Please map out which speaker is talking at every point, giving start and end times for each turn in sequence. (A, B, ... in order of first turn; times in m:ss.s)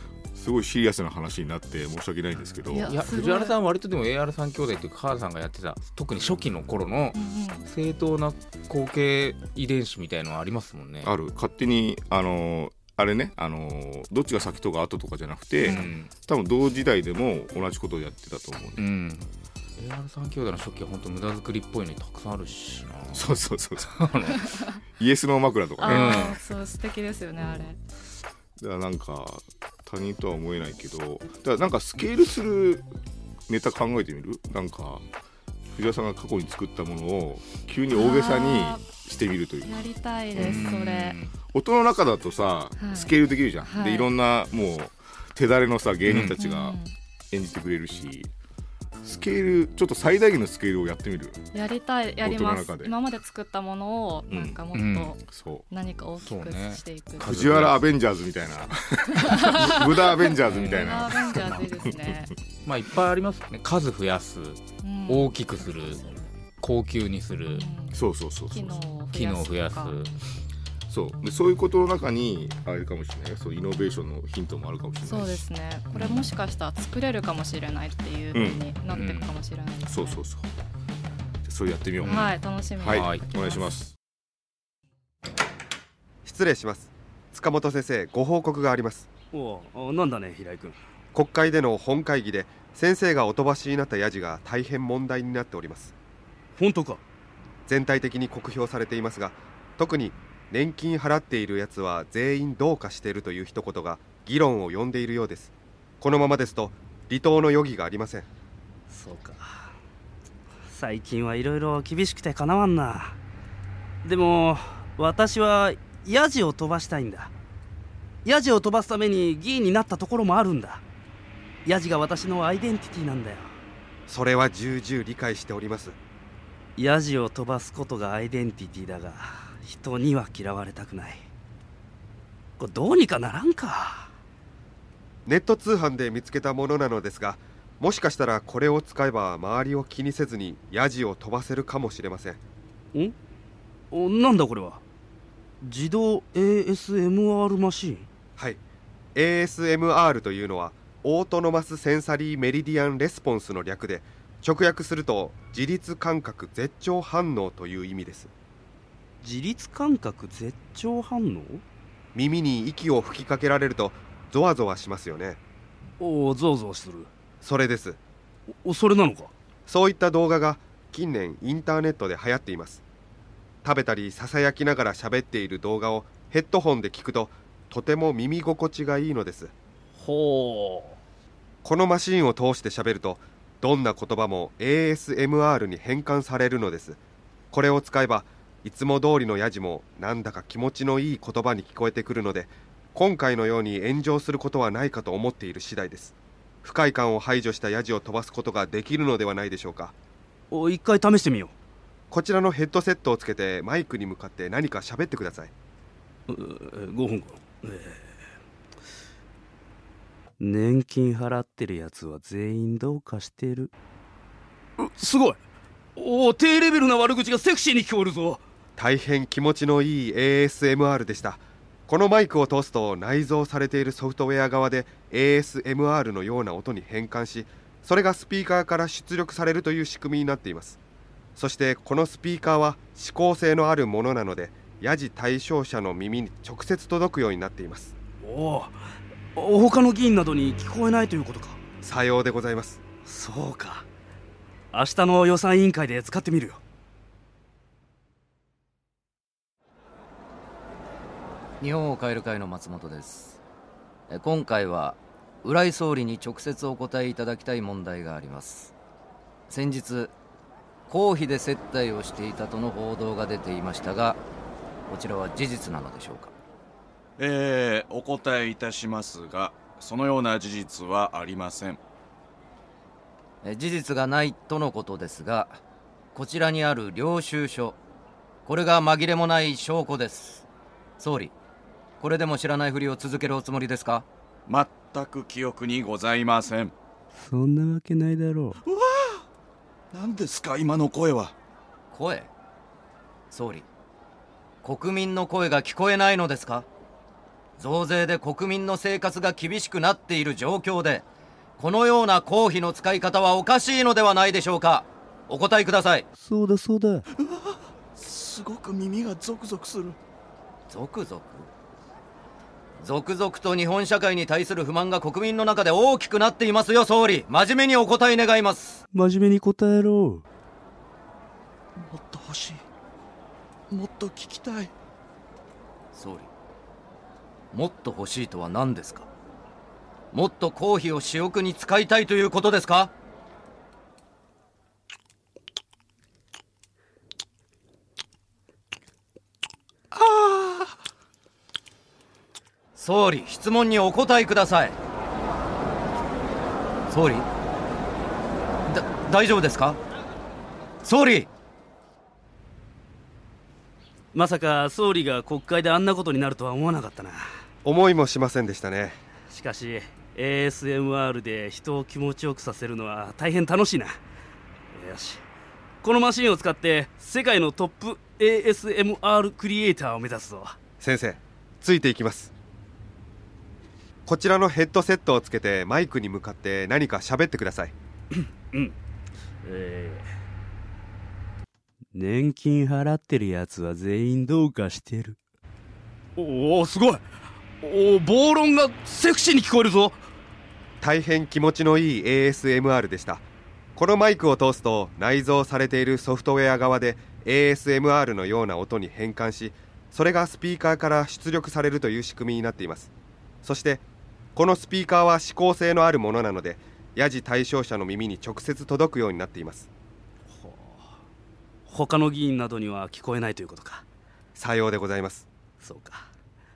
0:00.3-0:03.0 A
0:02.7-0:03.5 B
0:02.7-0:11.1 C
0:07.1-0:07.7 B
0:11.0-0:18.8 A
0:15.6-0:16.0 B
0:15.6-0:16.1 C
0:18.8-0:24.4 C
0:23.1-0:24.4 A
0:25.0-0:26.4 A
0:25.8-0:27.8 B
0:25.8-0:26.4 C
0:28.6-0:32.8 A
0:33.5-0:35.0 A
0:35.7-0:40.6 A
0:37.9-0:38.9 B
0:39.6-0:41.2 B
0:40.4-0:41.3 C
0:41.5-0:46.8 A
0:42.8-0:44.1 B
0:46.0-0:46.3 C
0:46.2-0:46.9 B
0:47.3-0:48.3 A
0:49.0-0:51.4 A
0:51.5-0:57.3 B
0:52.2-0:53.0 A
0:54.3-0:54.6 A
0:54.7-0:55.1 C
0:55.3-0:55.6 A
0:56.2-0:57.8 C
0:57.2-1:02.1 A
0:59.2-1:02.3 B
1:00.4-1:01.0 C
1:02.6-1:06.0 C
1:04.8-1:06.3 B
1:06.6-1:07.6 C
1:07.5-1:10.0 B
1:07.9-1:08.8 A
1:09.1-1:10.1 C
1:10.9-1:15.4 A
1:15.0-1:20.2 B
1:18.3-1:18.7 A
1:18.9-1:19.3 C
1:19.8-1:20.5 A
1:21.4-1:23.9 A
1:22.0-1:22.3 C
1:22.0-1:23.7 B
1:22.8-1:23.2 C
1:26.2-1:29.1 D
1:29.3-1:30.8 E
1:31.1-1:35.9 D
1:36.6-1:37.0 E
1:37.7-1:48.3 D
1:48.9-1:49.7 E
1:50.7-1:53.2 E
1:54.0-1:57.3 E
1:58.2-2:00.8 E
2:01.6-2:03.5 E
2:04.1-2:06.0 D
2:06.8-2:11.2 E
2:12.6-2:14.1 E
2:15.2-2:22.4 D
2:23.9-2:24.8 E
2:25.6-2:28.1 E
2:29.1-2:38.3 D
2:39.2-2:41.6 E
2:42.1-2:45.4 D
2:46.0-2:47.1 E
2:47.4-2:48.0 D
2:48.6-2:49.3 E
2:49.7-2:52.8 D
2:53.6-2:59.5 D
3:00.0-3:01.0 E
3:01.6-3:07.0 D
3:07.5-3:19.9 D
3:20.5-3:21.5 E
3:22.1-3:25.5 D
3:26.3-3:28.0 E
3:30.4-3:33.7 E
3:34.8-3:35.4 E
3:36.0-3:38.4 E
3:38.8-3:50.8 D
3:51.4-3:57.9 D
3:58.2-3:58.8 E
3:59.4-4:01.6 E
4:01.8-4:02.8 D
4:03.0-4:03.8 E
4:04.7-4:06.6 E
4:11.6-4:13.4 F
4:14.1-4:18.7 F
4:19.5-4:20.1 F
4:20.9-4:24.2 F
4:24.9-4:26.3 F
4:27.2-4:31.8 G
4:33.4-4:35.6 F
4:36.1-4:37.8 F
4:38.4-4:40.4 F
4:41.0-4:41.3 F
4:42.0-4:44.0 F
4:44.5-4:46.7 G
4:47.2-4:48.6 E
4:49.9-4:51.3 G
4:51.9-4:52.3 F
4:53.3-4:53.6 F
4:54.6-4:56.6 F
4:57.6-5:01.0 F
5:01.6-5:06.0 F
5:06.2-5:07.0 E
5:08.0-5:10.0 G
5:10.7-5:11.5 F
5:12.8-5:18.8 F
5:18.9-5:20.2 E
5:21.8-5:22.6 G
5:23.7-5:24.7 G
5:25.9-5:26.3 F
5:27.5-5:29.1 F
5:30.1-5:32.9 F
5:42.8-5:44.7 F
5:46.9-5:47.3 F
5:48.7-5:49.8 F
5:50.8-5:51.3 F
5:54.1-5:57.2 E
5:57.6-5:59.0 D
5:59.3-6:04.0 E
6:04.7-6:05.2 E
6:05.8-6:10.6 E
6:10.8-6:12.3 D
6:14.0-6:17.7 D
6:18.1-6:18.8 E
6:19.4-6:20.1 E
6:21.9-6:25.2 E
6:26.2-6:27.0 E
6:27.6-6:30.0 E
6:30.8-6:33.2 D
6:33.8-6:42.9 D
6:43.4-6:43.8 D
6:44.3-6:49.7 D
6:50.3-6:50.9 E
6:51.7-6:53.8 E
6:54.4-6:55.3 D
6:55.6-6:56.0 E